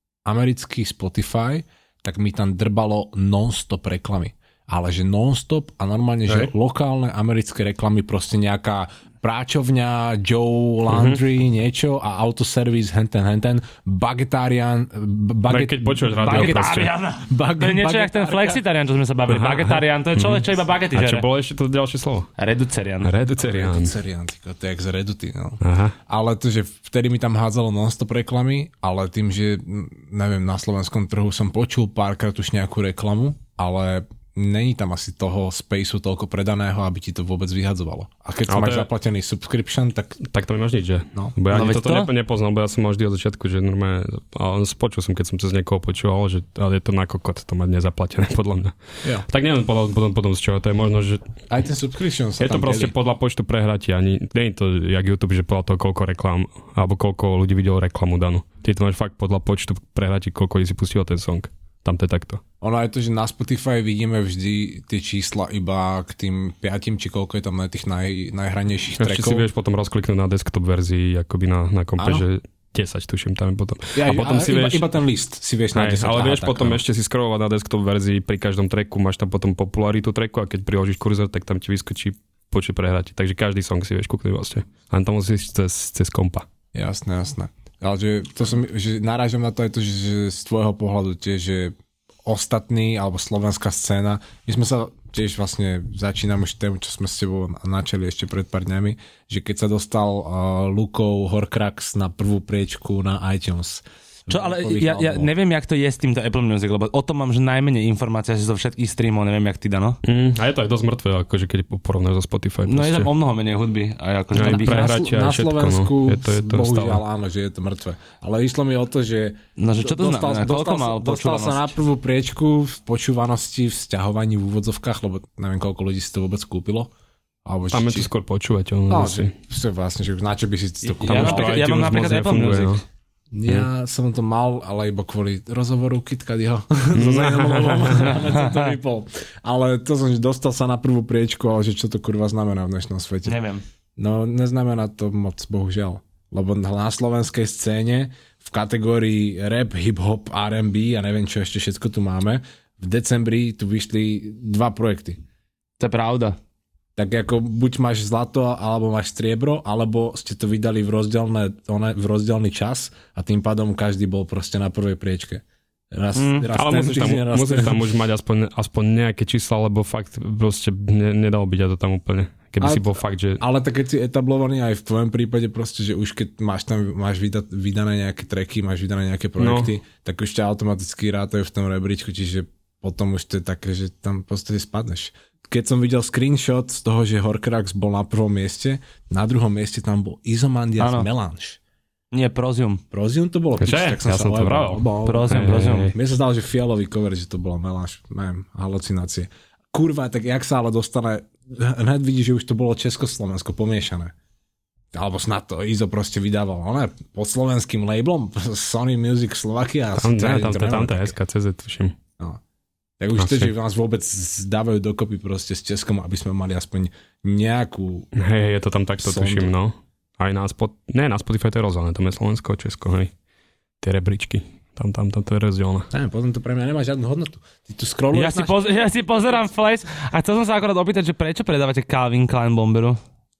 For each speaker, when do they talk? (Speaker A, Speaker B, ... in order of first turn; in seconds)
Speaker A: 0.2-18.6, 23.3-40.2, 51.5-52.9, 62.6-69.5, 72.0-72.2, 73.9-76.8, 86.7-91.7, 92.2-105.3, 114.4-126.9, 127.4-128.1, 128.9-131.8, 133.3-143.4, 144.0-155.2, 156.9-167.9, 172.6-191.6, 192.9-204.1, 204.9-211.1, 213.0-218.1, 219.0-219.5, 225.9-228.7
Speaker B: 10.9-11.2, 15.5-16.9, 19.3-22.3, 23.0-23.9, 25.6-25.9, 38.5-38.9, 40.2-51.4, 52.4-62.4, 69.0-74.9, 75.7-86.5, 110.0-113.1, 114.3-117.0, 127.7-129.3, 131.0-132.8, 136.9-138.2, 166.5-173.4, 179.4-179.7, 193.6-195.9, 210.0-211.9, 213.2-213.5, 218.1-223.1, 223.8-225.9
Speaker C: 16.2-21.2, 22.4-23.1, 41.5-42.1, 104.3-110.0, 112.7-115.0, 119.6-121.7, 131.0-132.8, 138.1-138.7, 143.2-143.6, 155.8-156.4, 166.2-166.5, 190.8-191.1, 192.1-192.8, 195.0-195.9, 228.1-233.0